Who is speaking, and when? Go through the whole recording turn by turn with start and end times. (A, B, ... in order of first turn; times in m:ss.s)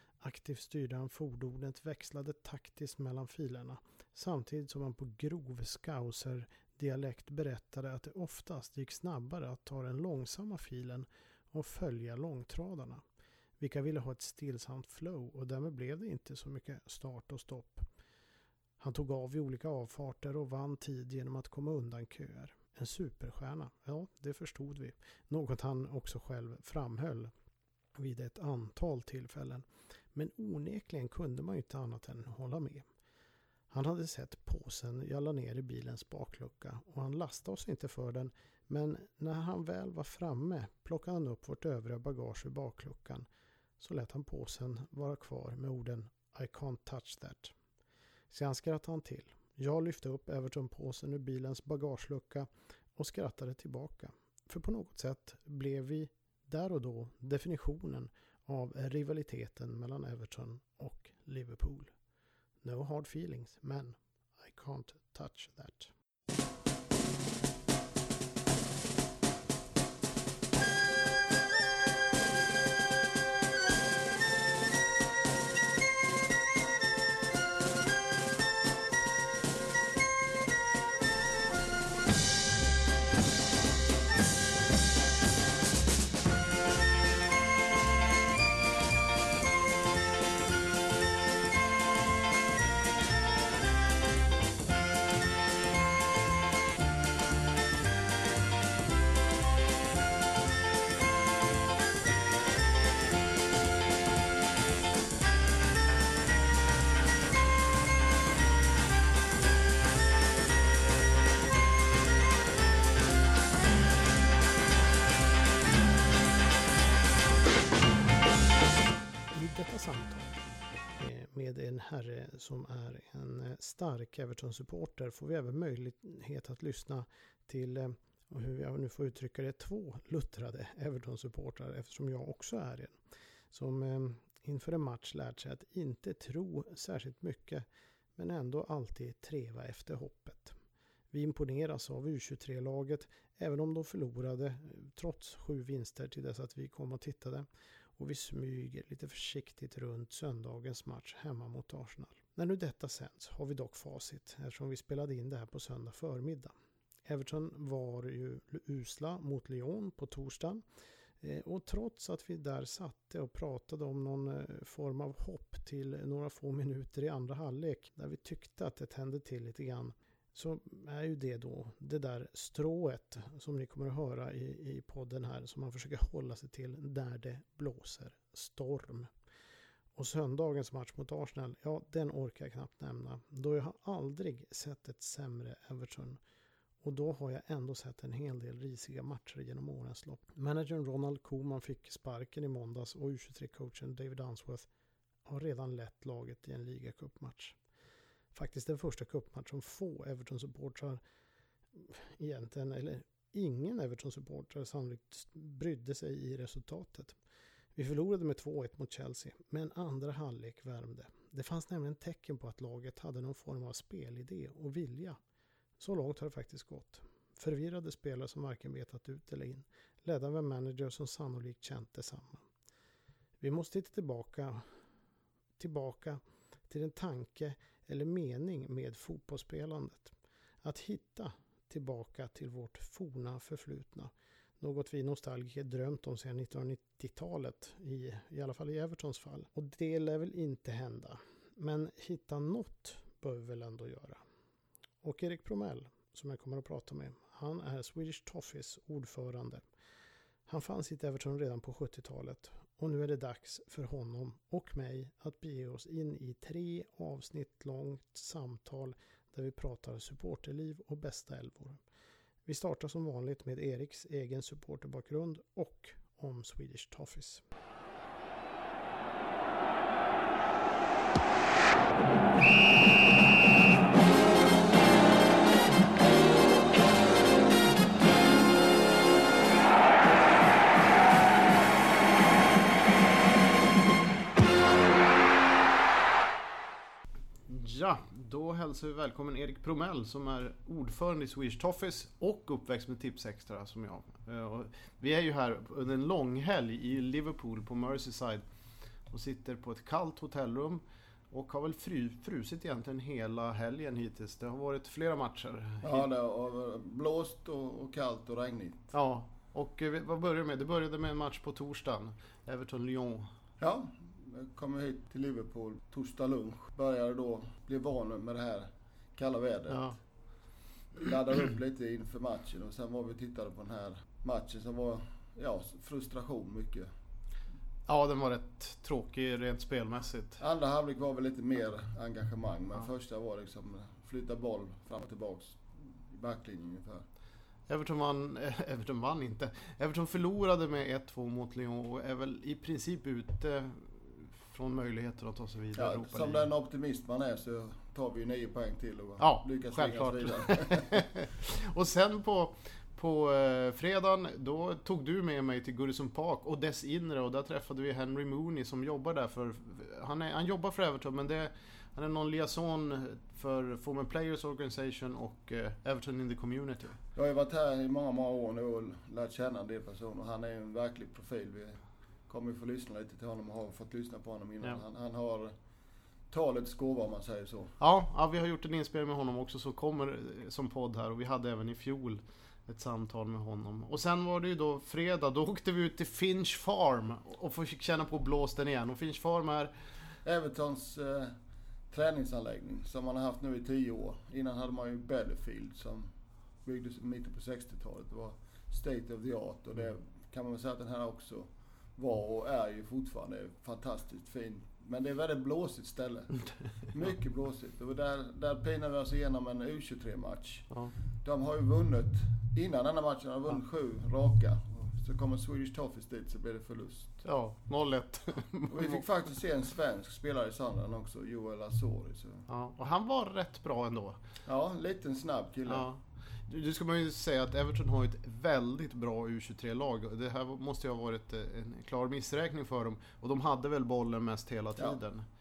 0:00.2-0:13.0 A
0:13.6-0:17.8 A
0:18.8-0:27.3 A
0:28.0-0:32.8 A
0:33.7-0:43.3 A
0:43.8-0:47.5 A
0:48.3-1:01.9 A
1:02.6-1:05.9 A
1:59.3-2:00.4 A
2:01.0-2:12.9 A
2:13.5-2:20.6 A
2:21.1-2:27.5 A
2:28.0-2:36.5 A
2:37.0-2:40.6 A
2:41.2-2:59.1 A
3:00.0-3:06.2 A
3:06.8-3:14.7 A
3:15.2-3:17.6 A
3:18.3-3:21.0 A
3:21.7-3:27.1 A
3:27.7-3:35.2 A
3:35.8-3:42.4 A
3:43.4-3:44.6 A
3:45.6-4:04.2 A
4:05.0-4:09.6 A
4:10.5-4:21.8 A
4:22.4-4:27.4 A
4:47.5-4:58.4 B
4:59.1-5:06.0 B
5:05.8-5:08.9 C
5:08.9-5:13.3 B
5:13.6-5:20.0 C
5:19.7-5:20.0 B
5:21.0-5:26.9 C
5:27.9-5:30.4 B
5:30.4-5:37.0 C
5:37.7-5:46.4 B
5:45.7-5:50.9 C
5:49.2-6:07.0 B
6:07.2-6:15.5 C
6:16.3-6:17.7 C
6:17.8-6:29.7 B
6:30.2-6:31.3 C
6:31.9-6:36.1 C
6:36.6-6:50.7 C
6:51.2-6:57.2 C
6:57.2-6:59.0 B
6:58.7-7:02.5 C
7:02.5-7:04.2 B
7:04.4-7:05.9 C
7:05.7-7:15.2 B